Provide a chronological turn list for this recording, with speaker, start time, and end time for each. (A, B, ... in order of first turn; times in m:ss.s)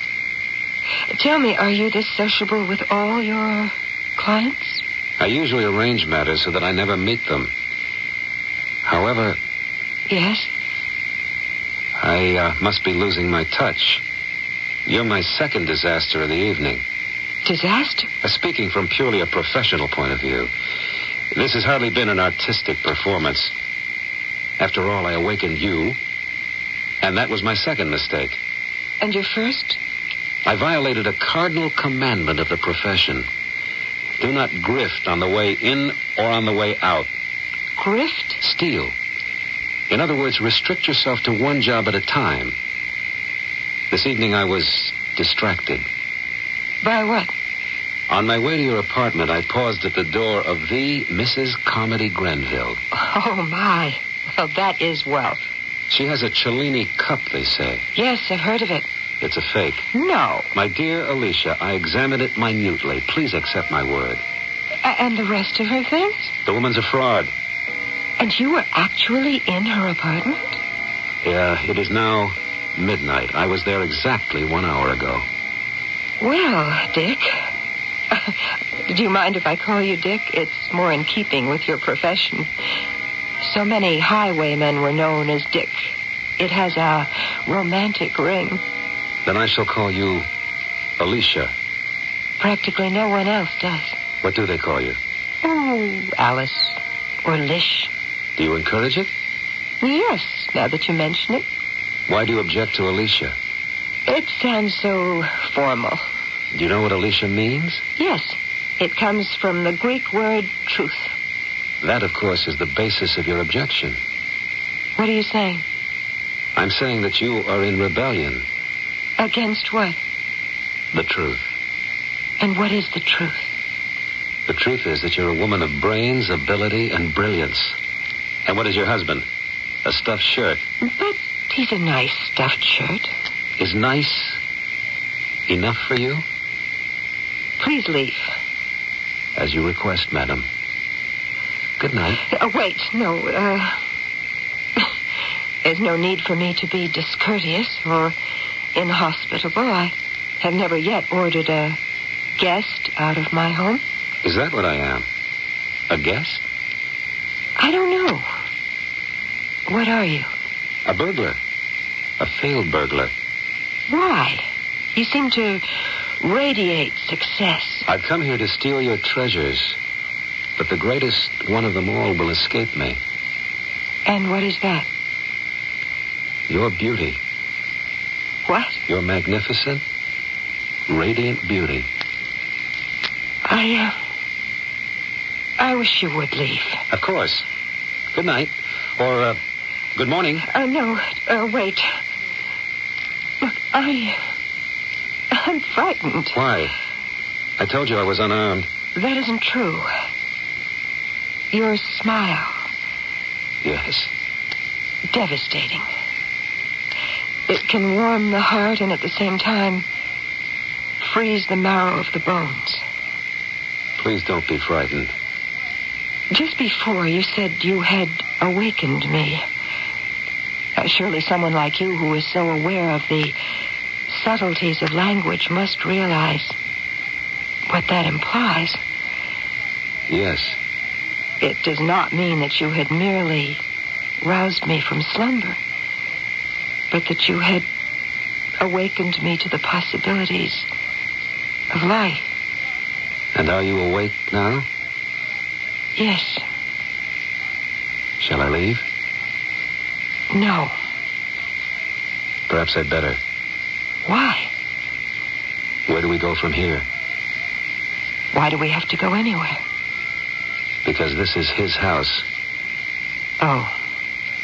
0:01.1-0:04.8 A
0:05.2-0:07.5 B
0:08.8-0:09.4 B
0:10.1-0:10.5 A
0:12.0-0:14.0 B
0:14.9-0:16.8 B
0:17.4-0:18.1 A
0:18.2-0:20.5 B
0:21.3-0:23.5 B
0:24.6-0:26.0 B
0:27.0-0:28.4 B
0:29.0-0:29.8 A
0:30.4-0:33.3 B
0:34.2-0:37.1 B
0:37.8-0:38.4 A
0:38.4-0:39.0 B
0:39.9-0:42.6 B
0:43.9-0:45.9 B
0:46.8-0:47.3 A
0:48.1-0:52.8 B
0:52.9-0:55.4 A
0:55.9-0:57.9 B
0:58.0-0:58.9 A
0:59.2-0:59.9 B
0:59.9-1:00.5 A
1:00.5-1:04.2 B
1:04.8-1:06.3 A
1:06.5-1:07.3 B
1:08.2-1:10.6 A
1:11.2-1:15.2 B
1:16.2-1:17.5 A
1:18.1-1:22.5 A
1:23.4-1:28.6 A
1:29.2-1:30.3 B
1:31.0-1:31.5 B
1:32.4-1:34.0 A
1:34.2-1:35.0 B
1:35.4-1:37.9 A
1:38.4-1:39.1 B
1:39.8-1:41.5 A
1:42.1-1:43.4 B
1:44.1-1:46.0 A
1:46.5-1:47.8 B
1:48.0-1:51.1 A
1:51.8-1:54.0 B
1:55.0-1:55.6 A
1:56.6-1:58.4 B
1:59.2-2:00.0 A
2:00.9-2:01.4 B
2:02.4-2:03.5 A
2:04.5-2:07.8 B
2:08.5-2:09.2 B
2:09.8-2:10.6 B
2:10.8-2:13.1 A
2:13.6-2:14.4 B
2:15.5-2:16.2 B
2:17.6-2:18.3 A
2:19.4-2:20.5 B
2:21.8-2:22.2 B
2:22.3-2:23.8 A
2:25.6-2:28.2 A
2:28.8-2:31.8 A
2:32.4-2:33.8 A
2:34.2-2:35.1 B
2:35.9-2:36.4 B
2:37.6-2:38.3 A
2:39.7-2:40.3 A
2:40.9-2:41.4 B
2:42.2-2:43.1 B
2:43.9-2:45.6 A
2:46.2-2:47.9 A
2:47.9-2:49.8 B
2:50.6-2:53.0 B
2:54.0-2:54.9 A
2:56.5-2:57.2 B
2:58.5-2:58.8 A
2:58.9-2:59.8 B
3:00.9-3:01.9 B
3:03.4-3:04.0 A
3:05.6-3:06.8 A
3:06.9-3:07.4 B
3:08.1-3:09.4 B
3:10.0-3:10.4 B
3:10.4-3:11.9 A
3:13.4-3:14.2 A
3:15.3-3:16.4 A
3:16.3-3:16.7 B
3:17.6-3:18.7 B
3:19.0-3:19.9 A
3:21.5-3:22.6 A
3:23.6-3:24.1 B
3:25.1-3:25.8 A
3:27.5-3:29.8 A
3:31.0-3:32.8 A
3:34.0-3:35.1 B
3:36.3-3:39.4 A
3:40.8-3:43.4 A
3:44.1-3:46.6 A
3:47.7-3:48.8 A
3:50.1-3:50.6 B
3:51.4-3:53.6 A
3:54.2-3:55.6 A
3:56.9-3:57.7 A
3:58.6-4:00.7 A
4:01.7-4:02.3 A
4:03.3-4:04.7 B
4:06.0-4:06.4 A
4:08.2-4:08.8 B
4:10.3-4:10.8 A
4:12.5-4:13.2 B
4:14.0-4:14.5 A
4:15.9-4:16.9 B
4:18.3-4:19.6 A
4:20.8-4:22.2 B
4:23.4-4:23.8 A